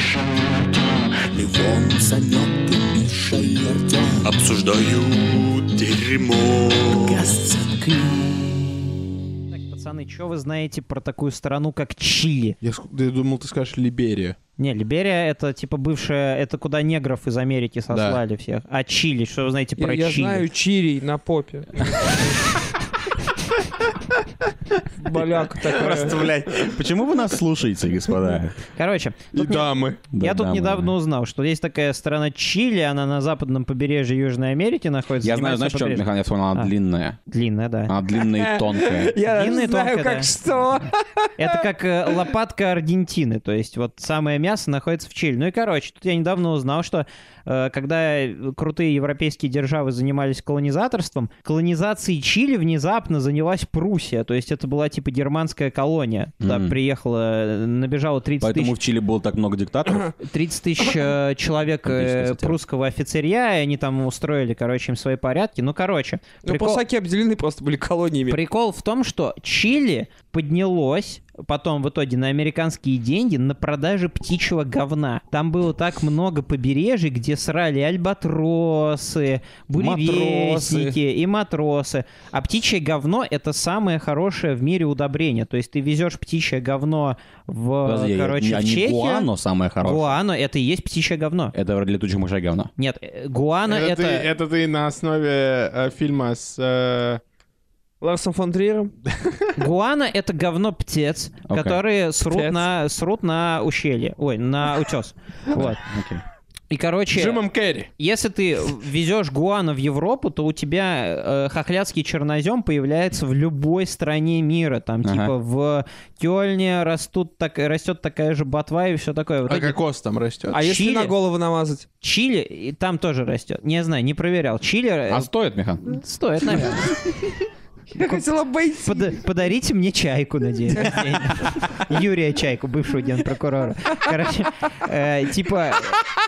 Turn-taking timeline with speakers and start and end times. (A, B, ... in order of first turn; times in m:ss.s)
0:01.4-0:03.6 A
0:01.4-0:06.4 B
0:04.2-0:08.6 A
0:07.0-0:07.3 C
0:09.5-0:12.6 D
0:12.6-0:14.4 C
0:14.6-0:20.4 D
0:19.8-0:22.4 E
0:25.0-0:26.3 E
0:25.1-0:28.6 A
0:28.8-0:36.7 D
0:29.3-0:30.0 C
0:30.1-0:30.9 A
0:35.2-0:37.2 A
0:37.3-0:37.9 D
0:37.9-0:39.2 A
0:38.2-0:42.2 E
0:39.3-0:40.3 D
0:41.4-0:58.7 D
0:56.4-0:56.8 A
0:58.4-1:00.1 A
1:00.2-1:06.8 D
1:01.8-1:02.6 A
1:06.4-1:08.4 E
1:08.3-1:29.3 D
1:19.8-1:21.0 A
1:27.8-1:30.1 A
1:29.8-1:31.5 D
1:31.5-1:32.7 A
1:32.8-1:34.3 D
1:33.7-1:37.2 C
1:38.0-1:38.9 E
1:39.6-1:45.8 D
1:41.5-1:41.8 A
1:42.3-1:42.7 E
1:45.5-1:46.2 A
1:46.7-1:47.4 D
1:47.1-1:47.9 C
1:48.0-1:59.8 D
1:55.0-1:55.3 A
1:59.4-2:00.6 C
2:00.5-2:01.9 E
2:00.5-2:01.1 D
2:02.0-2:05.3 D
2:05.1-2:06.0 A
2:05.8-2:07.0 D
2:08.0-2:09.2 E
2:08.8-2:16.0 D
2:10.7-2:11.6 E